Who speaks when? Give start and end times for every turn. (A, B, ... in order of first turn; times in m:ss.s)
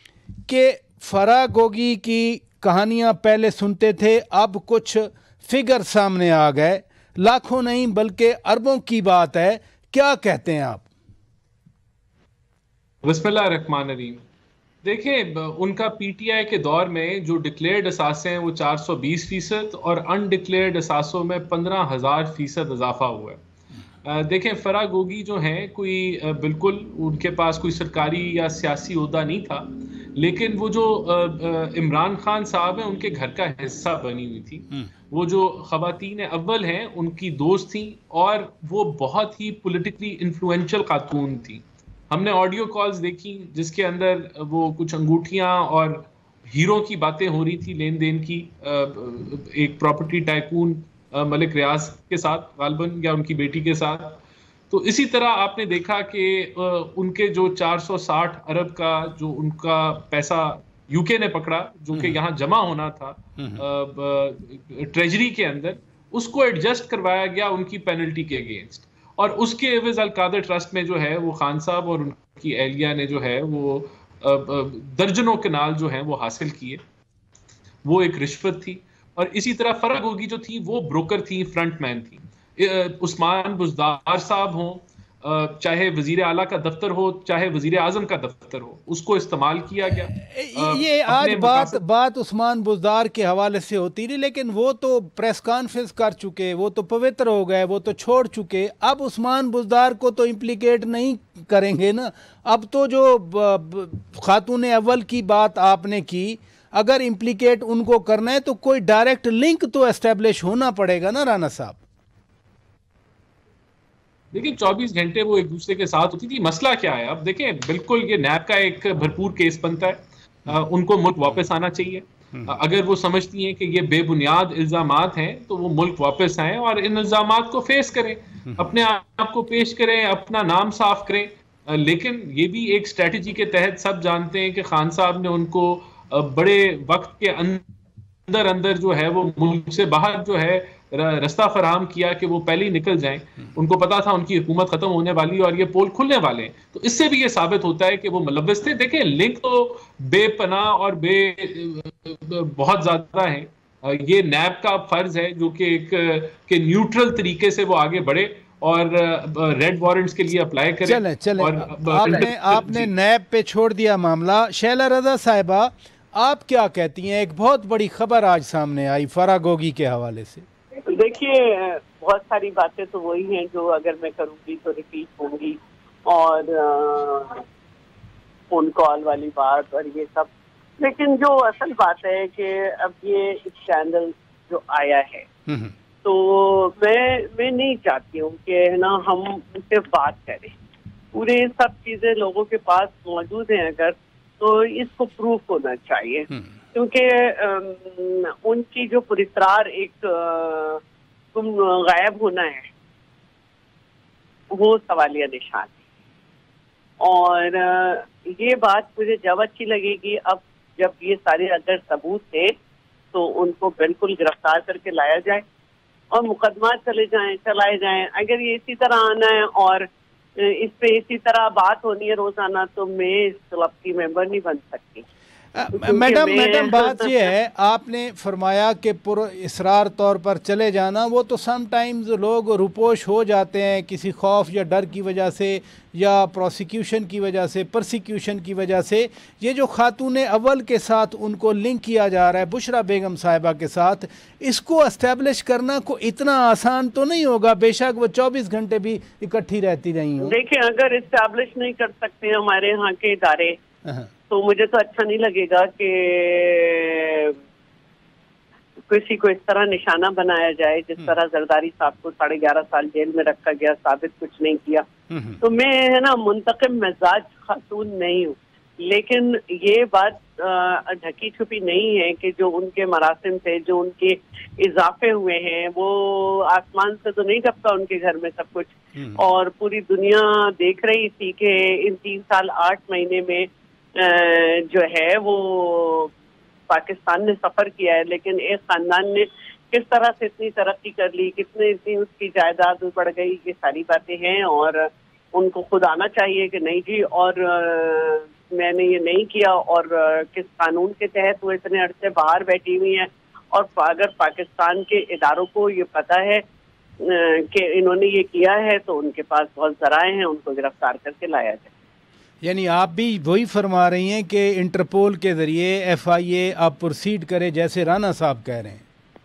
0:00.4-0:10.8 A
0:13.0-0:14.2 B
0:14.8-0:23.4 B
0:24.0-1:16.8 B
1:03.4-1:03.6 A
1:17.8-1:31.8 B
1:30.1-1:51.8 A
1:54.3-2:17.6 B
2:18.3-2:42.9 B
2:40.8-2:50.4 A
2:50.9-2:57.4 C
2:58.5-3:05.2 C
3:05.5-3:05.7 A
3:06.0-3:10.6 C
3:11.1-3:20.8 C
3:21.3-3:22.7 C
3:24.5-3:25.7 C
3:27.0-3:32.5 C
3:33.1-3:35.4 C
3:36.1-3:39.8 C
3:40.4-3:45.0 C
3:45.5-4:10.4 A
3:45.7-3:47.2 C
4:10.2-4:13.6 C
4:14.3-4:17.4 C
4:18.9-4:24.8 C
4:25.1-4:25.4 A
4:25.4-4:46.1 C
4:46.7-5:06.4 C
5:07.0-5:11.7 C
5:12.4-5:18.8 A